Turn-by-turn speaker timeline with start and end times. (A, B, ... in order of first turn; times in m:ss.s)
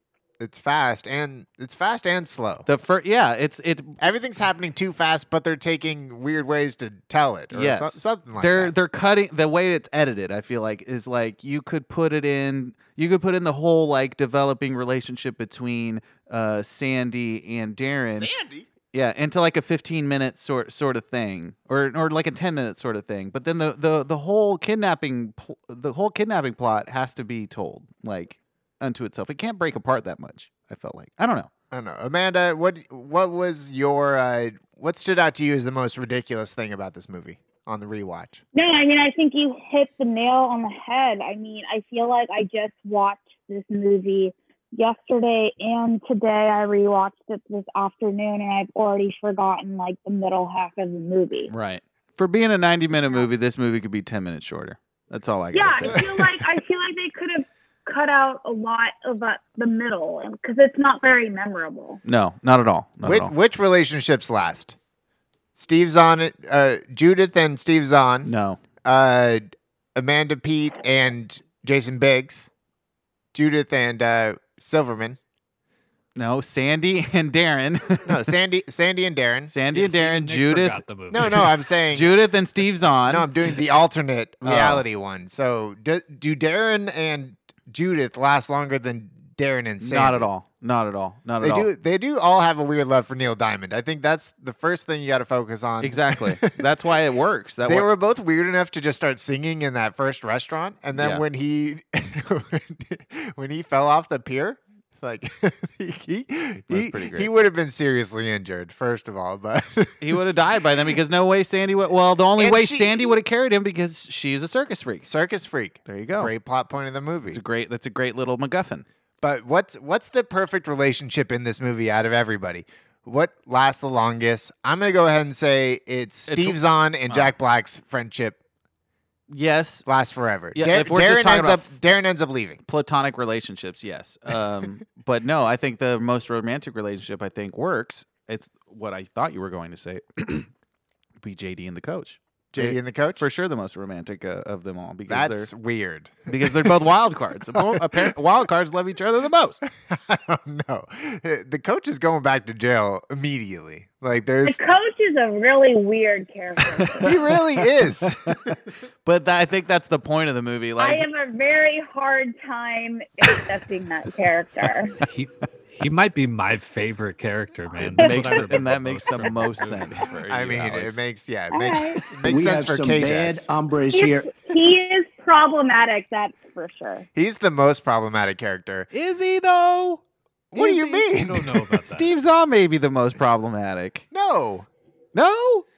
0:00.4-0:02.7 A
0:02.7-0:04.0 B
0:04.0-0:08.7 A
0:07.5-0:18.3 B
0:18.2-0:18.7 A
0:18.9-0:31.5 B
0:31.7-0:38.4 A
0:38.5-0:51.5 C
0:51.5-0:56.1 B
0:52.9-0:53.3 C
0:55.5-1:02.0 C
0:55.9-0:56.2 A
1:02.0-1:03.3 B
1:03.0-1:04.8 A
1:05.6-1:08.3 A
1:08.2-1:08.6 B
1:08.8-1:12.5 A
1:13.3-1:15.2 A
1:16.2-1:18.3 B
1:18.0-1:19.5 A
1:19.5-1:23.3 B
1:19.7-1:21.5 D
1:21.1-1:22.1 A
1:23.1-1:30.3 A
1:24.4-1:24.8 B
1:29.8-1:31.7 B
1:31.4-1:36.6 A
1:35.8-1:37.9 B
1:37.6-1:50.3 A
1:41.0-1:41.2 B
1:46.7-1:47.3 B
1:50.0-1:55.1 B
1:52.4-1:53.2 A
1:55.1-1:57.4 A
1:55.9-1:56.3 B
1:57.3-1:58.8 B
1:59.2-2:08.4 A
2:06.3-2:07.3 B
2:09.3-2:09.9 B
2:09.9-2:12.6 A
2:10.5-2:11.7 B
2:12.7-2:20.5 B
2:21.2-2:25.5 B
2:22.5-2:23.2 A
2:25.1-2:26.8 A
2:26.3-2:29.6 B
2:27.5-2:28.2 A
2:29.9-2:34.6 A
2:34.4-2:37.1 C
2:36.9-2:41.1 B
2:37.0-2:38.6 A
2:40.8-2:45.0 C
2:45.0-2:50.0 D
2:47.8-2:51.0 B
2:50.3-2:53.5 A
2:51.5-2:52.0 C
2:52.2-2:54.3 E
2:53.9-2:57.1 C
2:57.2-2:58.9 A
2:58.9-3:00.0 B
3:00.5-3:01.8 A
3:00.6-3:02.1 D
3:01.9-3:04.0 B
3:04.1-3:04.7 A
3:05.1-3:05.6 B